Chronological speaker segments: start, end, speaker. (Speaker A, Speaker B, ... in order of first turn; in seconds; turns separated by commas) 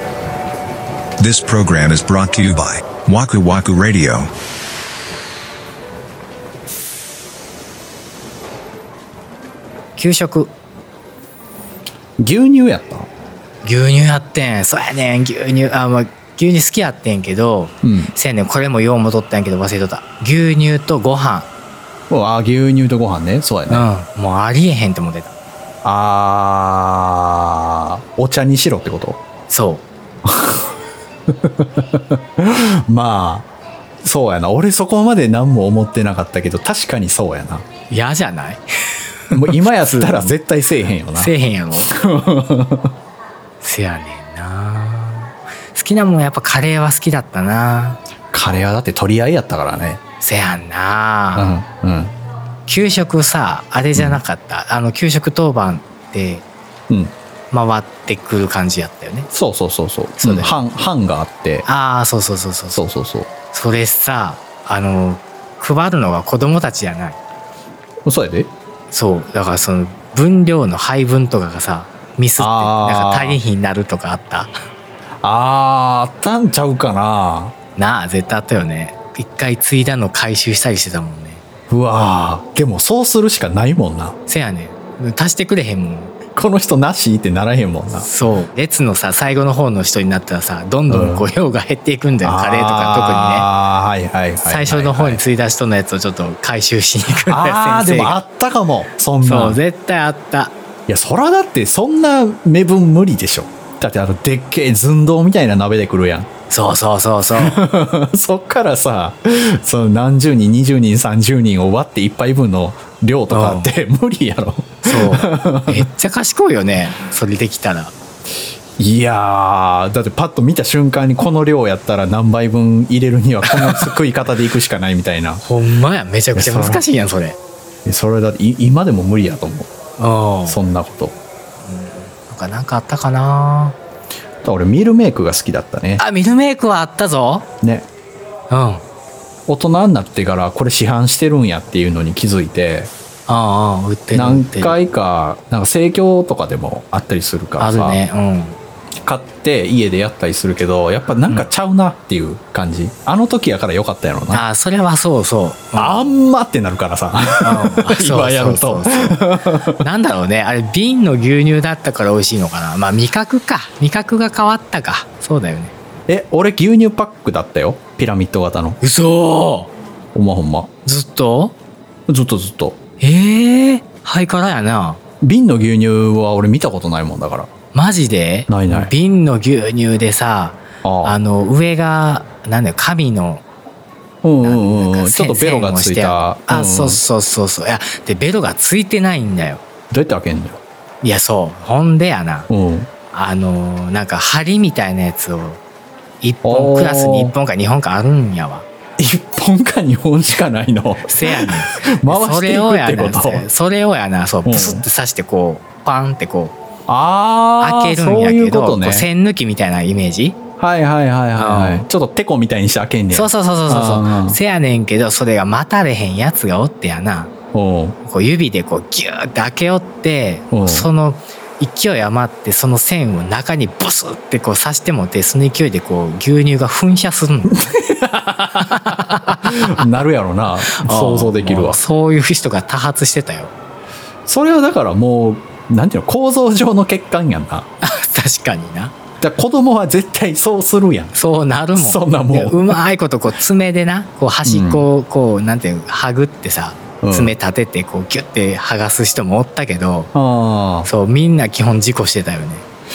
Speaker A: 1.2-4.3, Speaker B: 9.9-10.5, Speaker C: 12.2-13.1, Speaker B: 13.6-21.5, Speaker C: 17.8-18.1, Speaker C: 22.1-23.9, Speaker B: 23.7-25.3, Speaker C: 25.8-29.2, Speaker B: 29.5-29.9, Speaker C: 30.2-30.6, Speaker C: 31.3-33.5, Speaker C: 34.0-37.6, Speaker B: 37.9-40.3, Speaker C: 39.3-42.9, Speaker B: 41.1-41.9, Speaker B: 43.6-48.0, Speaker C: 48.3-50.0, Speaker B: 50.2-51.6, Speaker C: 51.3-52.1, Speaker B: 52.7-56.5, Speaker C: 53.9-54.2, Speaker B: 57.5-59.3, Speaker C: 59.3-61.6, Speaker B: 60.2-60.6, Speaker B: 61.6-62.8, Speaker C: 62.7-63.3, Speaker B: 63.5-67.2, Speaker C: 68.0-68.5, Speaker B: 68.9-74.5, Speaker C: 72.4-73.4, Speaker C: 75.2-77.5, Speaker B: 77.8-81.4, Speaker C: 81.7-84.2, Speaker B: 84.3-86.1, Speaker C: 86.3-88.1, Speaker B: 88.0-93.5, Speaker C: 90.9-91.3, Speaker C: 92.2-95.2, Speaker B: 94.4-98.2, Speaker C: 97.1-99.6, Speaker B: 99.2-100.5, Speaker C: 100.9-106.3, Speaker B: 106.5-107.6, Speaker C: 107.3-115.9, Speaker B: 113.3-113.7, Speaker B: 114.8-117.9, Speaker C: 118.8-125.4, Speaker B: 123.5-123.9, Speaker B: 125.4-127.4, Speaker C: 126.3-126.8, Speaker C: 127.8-129.7, Speaker B: 130.0-130.6, Speaker C: 130.4-131.2, Speaker B: 131.7-133.8, Speaker C: 134.4-136.0, Speaker B: 136.0-137.5, Speaker C: 137.6-137.9, Speaker B: 138.5-138.8, Speaker C: 139.5-142.9, Speaker B: 143.3-144.8, Speaker C: 144.1-148.0, Speaker B: 147.6-148.6, Speaker C: 149.0-154.4, Speaker B: 154.3-156.2, Speaker C: 155.7-159.8, Speaker B: 157.4-165.7, Speaker C: 166.1-168.8, Speaker B: 168.8-169.7, Speaker C: 170.1-170.7, Speaker B: 170.8-171.5, Speaker C: 172.1-172.8, Speaker B: 173.0-175.0, Speaker C: 175.2-177.5, Speaker B: 177.7-183.4, Speaker C: 178.5-178.9, Speaker C: 180.8-181.2, Speaker C: 184.2-187.0, Speaker B: 184.4-189.6, Speaker C: 189.9-190.6, Speaker B: 191.0-192.5, Speaker C: 192.5-192.9, Speaker B: 193.1-195.6, Speaker B: 196.2-198.7, Speaker C: 196.4-197.3, Speaker C: 199.0-203.4, Speaker B: 201.0-206.6, Speaker C: 204.4-204.8, Speaker C: 206.9-209.1, Speaker B: 207.6-210.4, Speaker C: 210.6-214.4, Speaker B: 211.3-211.8, Speaker B: 213.1-217.3, Speaker C: 217.5-217.9, Speaker B: 218.0-227.6, Speaker C: 220.5-220.9, Speaker C: 227.5-231.8, Speaker B: 228.6-229.8, Speaker B: 230.7-233.5, Speaker C: 234.2-237.7, Speaker B: 237.8-238.9, Speaker C: 239.2-241.2, Speaker B: 241.1-250.1, Speaker C: 241.7-242.8, Speaker C: 244.4-244.8, Speaker C: 247.0-247.3, Speaker C: 250.1-250.9, Speaker B: 250.8-252.7